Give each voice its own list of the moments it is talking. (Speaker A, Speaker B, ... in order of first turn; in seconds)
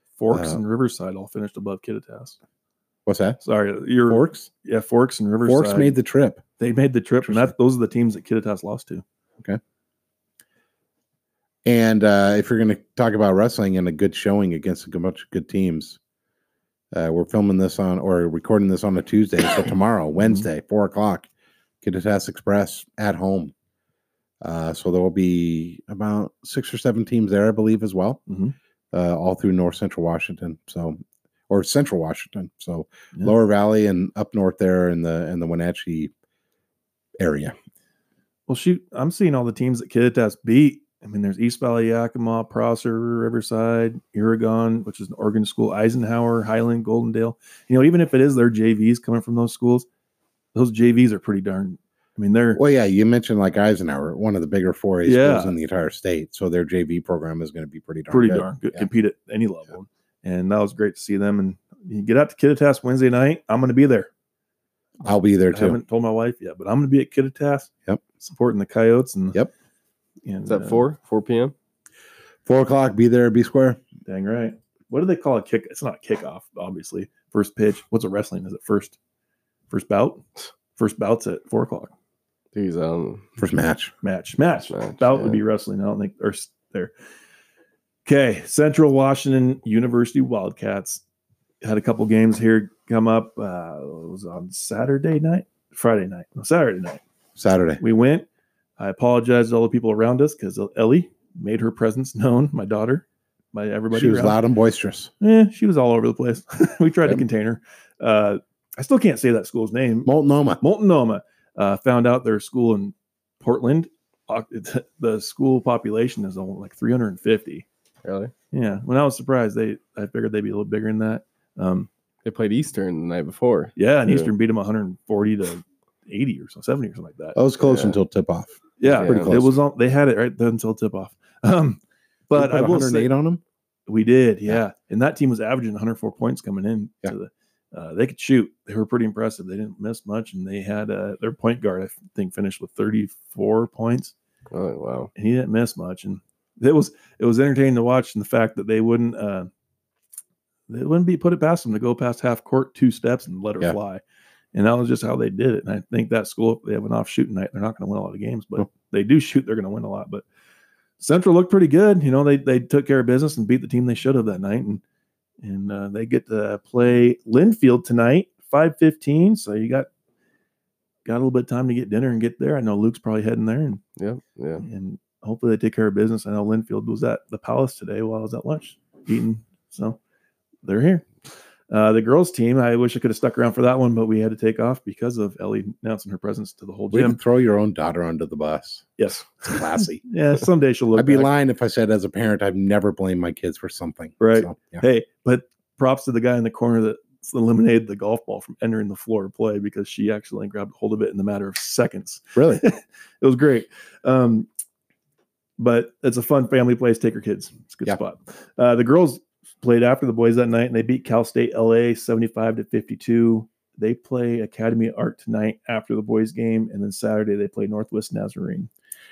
Speaker A: 0.2-2.4, 3.4-6.0, 6.6-9.0, 28.3-28.6, 38.5-49.9, 50.5-52.6, 55.0-55.6, 58.1-64.1, 65.5-67.7, 68.2-69.4, 70.2-70.8, 74.1-79.0, 79.7-80.2, 80.8-81.9, 84.0-86.9, 88.0-91.0, 91.6-97.0, 97.8-98.3, 98.8-104.4, 105.2-117.7, 118.5-121.9, 123.8-127.4, 128.8-131.8, 132.3-133.1, 133.9-144.1, 145.2-149.5, 150.7-154.0, 154.5-160.2, 161.0-164.8, 165.4-169.9, 171.1-173.8, 174.6-180.0, 180.6-181.1, 181.7-187.2, 189.0-191.3, 194.2-204.5, 205.6-218.7
Speaker B: 0.3-0.6, 3.1-3.4, 4.1-4.5, 5.5-6.4, 7.2-7.5, 11.7-16.0, 16.9-21.3, 21.8-23.5, 24.4-28.2, 28.9-36.1, 37.2-37.5, 52.5-58.9, 65.0-65.8, 72.5-73.8, 83.4-83.9, 97.4-97.8, 103.9-105.1, 110.1-110.6, 127.3-129.6, 132.3-133.4, 186.9-190.0, 190.9-194.8, 202.3-202.6
Speaker C: 70.5-71.5, 82.5-83.3, 84.7-85.4, 118.0-118.3, 122.2-124.3, 127.6-128.0, 128.9-129.3, 144.5-145.1, 174.0-174.6